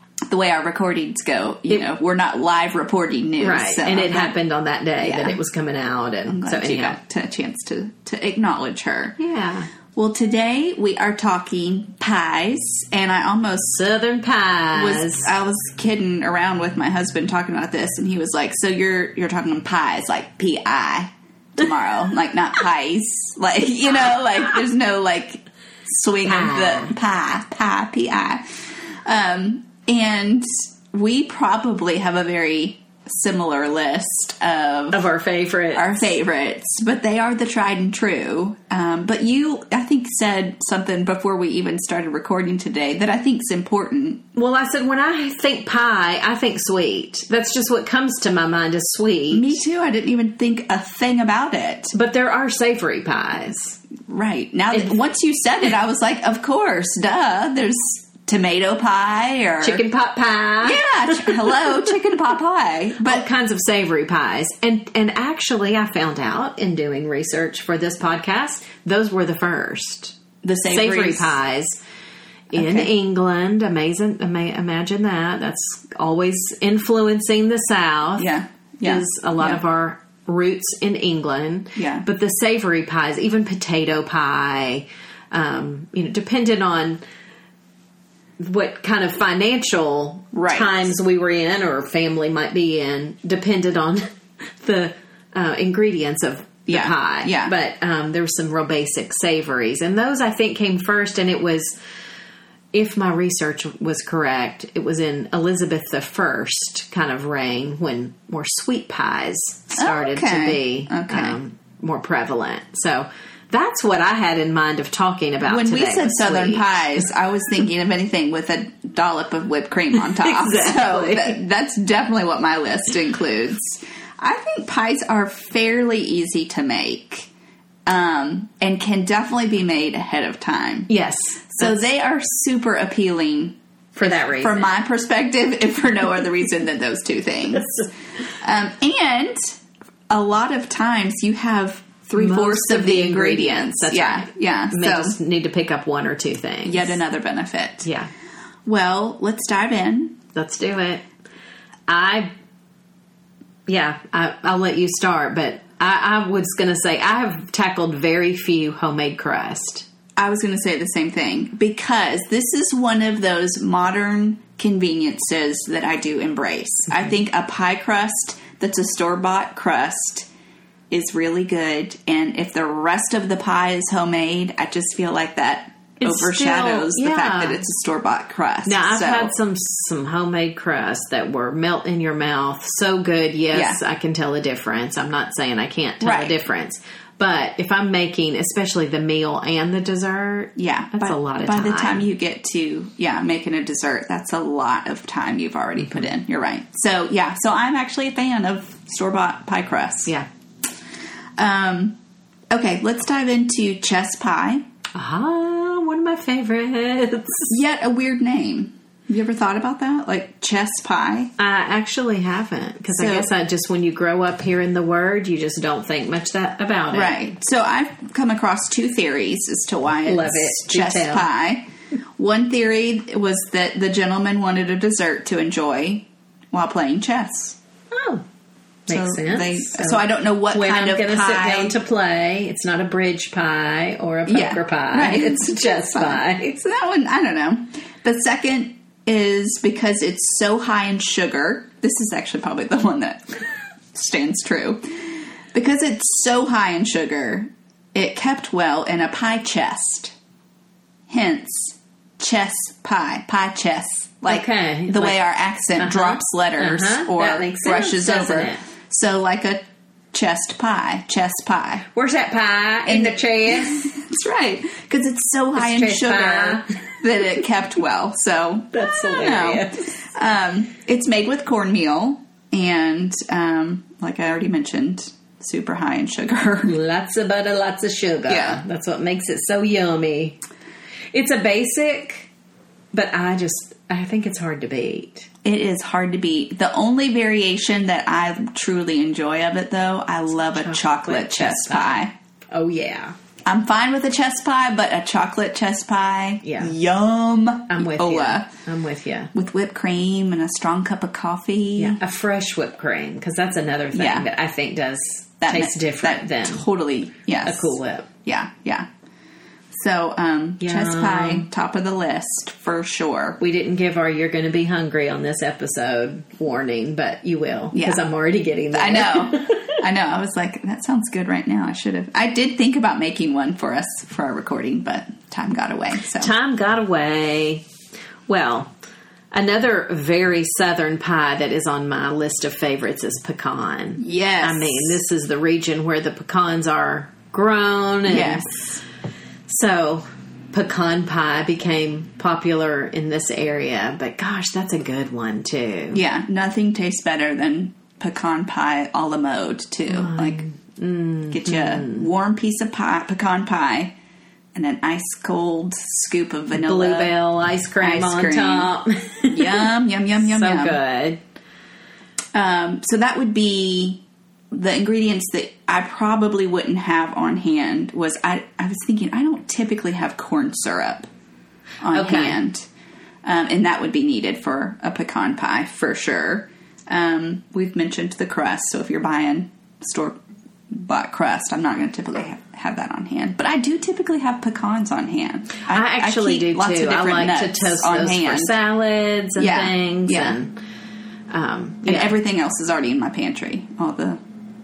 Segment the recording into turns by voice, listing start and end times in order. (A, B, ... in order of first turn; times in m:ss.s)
0:00.3-0:04.3 A
0:03.4-0:07.0 B
0:05.0-0:05.4 A
0:06.3-0:09.2 A
0:09.2-0:09.7 B
0:09.9-0:13.8 A
0:13.7-0:15.3 B
0:14.7-0:35.0 A
0:26.2-0:26.9 B
0:34.9-0:36.1 B
0:35.7-0:44.2 A
0:44.3-0:49.6 B
0:49.3-0:51.9 A
0:51.9-0:53.8 B
0:54.1-0:59.8 A
0:59.6-1:01.7 B
1:00.6-1:03.3 A
1:03.0-1:10.2 B
1:10.4-1:11.4 A
1:10.7-1:11.8 B
1:12.5-1:12.9 A
1:12.5-1:18.3 B
1:18.2-1:19.6 A
1:18.8-1:27.0 B
1:21.8-1:22.0 A
1:28.4-1:34.1 B
1:30.3-1:30.9 A
1:34.6-1:41.8 B
1:36.7-1:37.5 A
1:42.7-1:57.0 B
1:49.8-1:51.4 A
1:55.4-2:07.3 A
2:00.1-2:01.4 B
2:07.8-2:10.9 A
2:10.9-2:11.9 B
2:11.6-2:17.7 A
2:14.0-2:14.7 B
2:17.6-2:17.9 B
2:18.4-2:19.6 A
2:20.1-2:25.2 A
2:22.2-2:27.0 B
2:26.6-2:27.9 A
2:27.8-2:28.1 B
2:28.6-2:30.2 A
2:30.3-2:31.0 B
2:31.9-2:32.3 B
2:33.7-2:39.8 B
2:40.2-2:50.3 A
2:50.9-2:59.3 A
2:56.0-2:57.6 B
2:58.6-3:12.0 B
3:03.5-3:03.8 A
3:06.0-3:06.4 A
3:10.6-3:20.1 A
3:15.8-3:16.1 B
3:21.4-3:22.0 A
3:22.5-3:24.6 A
3:24.9-3:27.5 B
3:27.5-3:31.3 A
3:31.4-3:37.3 B
3:33.0-3:33.3 A
3:36.9-3:47.6 A
3:40.0-3:41.3 B
3:47.9-3:48.2 B
3:48.9-3:56.6 B
3:48.9-3:51.8 A
3:54.3-4:03.4 A
4:03.9-4:10.1 A
4:11.1-4:21.8 A
4:14.3-4:15.2 B
4:15.8-4:18.6 B
4:21.9-4:23.9 B
4:22.8-4:36.7 A
4:25.5-4:26.8 B
4:28.7-4:29.9 B
4:36.7-4:40.4 B
4:38.3-4:38.6 A
4:41.1-4:42.3 B
4:42.9-4:45.3 B
4:45.4-4:52.1 A
4:50.4-4:53.1 B
4:53.4-4:58.5 A
4:56.4-4:56.7 B
4:57.7-4:59.3 B
4:59.3-5:02.0 A
5:01.8-5:06.6 B
5:03.9-5:04.3 A
5:05.4-5:08.9 A
5:07.4-5:08.1 B
5:09.7-5:13.4 A
5:10.6-5:11.5 B
5:13.4-5:19.8 B
5:17.7-5:18.0 A
5:18.7-5:26.3 A
5:26.2-5:27.6 B
5:28.3-5:28.7 B
5:29.3-5:38.8 B
5:34.0-5:35.0 A
5:38.1-5:38.5 A
5:39.5-5:46.0 B
5:45.9-5:50.4 A
5:49.9-5:52.1 B
5:51.3-5:53.9 A
5:54.5-5:57.1 A
5:56.5-6:01.2 B
5:57.8-5:58.7 A
5:59.3-6:00.8 A
6:02.3-6:11.1 A
6:11.8-6:12.7 A
6:11.9-6:12.4 B
6:13.2-6:28.5 A
6:25.7-6:30.5 B
6:29.4-6:30.4 A
6:31.3-6:32.1 B
6:31.8-6:34.2 A